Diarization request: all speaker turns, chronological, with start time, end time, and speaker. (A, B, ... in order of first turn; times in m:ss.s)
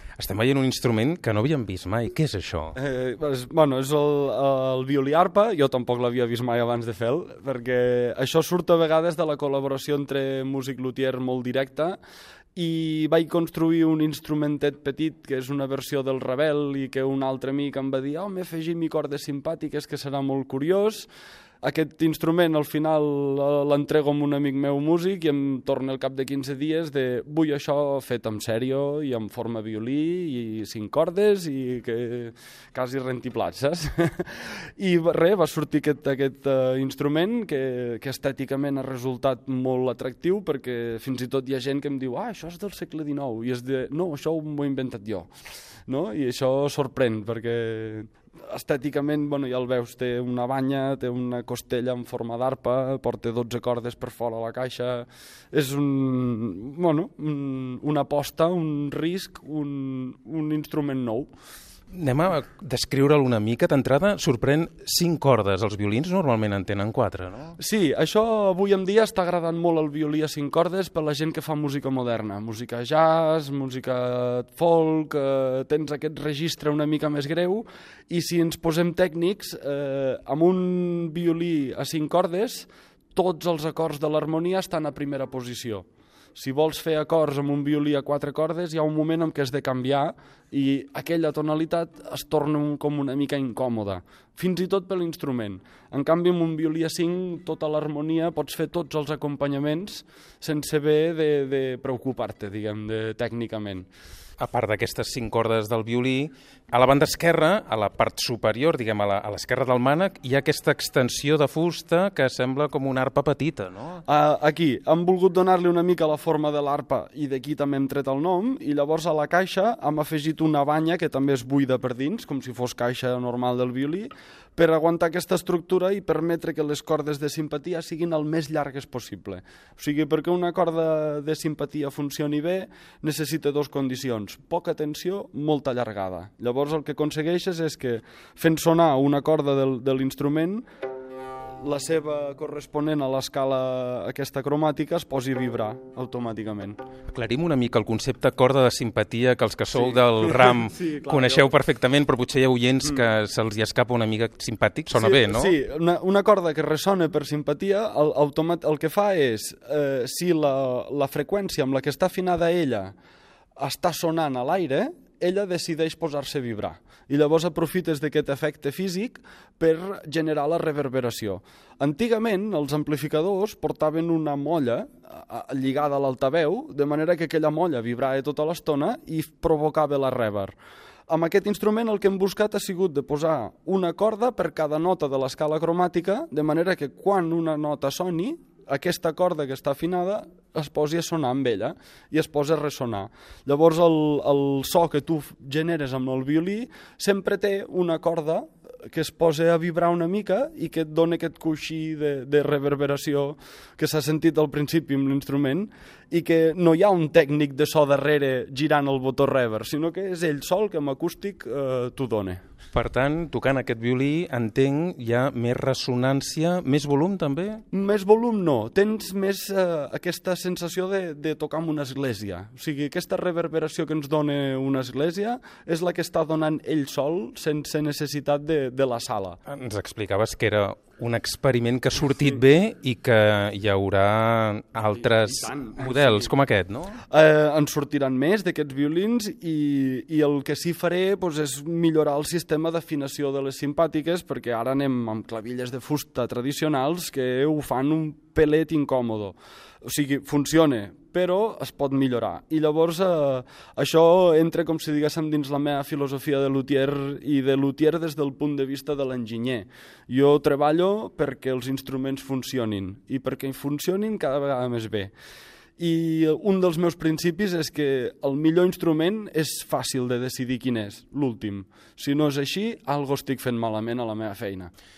0:00.2-0:02.7 A
0:02.7-0:12.0 B
0:12.6-0:21.1 B
0:21.6-0:45.3 B
0:45.9-1:01.3 B
1:01.9-1:07.5 A
1:07.6-1:43.9 B
1:44.4-1:54.0 A
1:54.0-2:20.6 B
2:21.6-2:26.8 B
2:27.1-2:35.5 A
2:29.7-2:31.5 B
2:34.9-2:42.9 B
2:43.6-3:00.5 B
3:01.1-3:32.4 B
3:32.7-3:37.6 A
3:37.7-3:49.4 B
3:49.4-3:57.0 A
3:54.9-3:56.3 B
3:57.0-4:25.1 B
4:25.8-4:34.7 B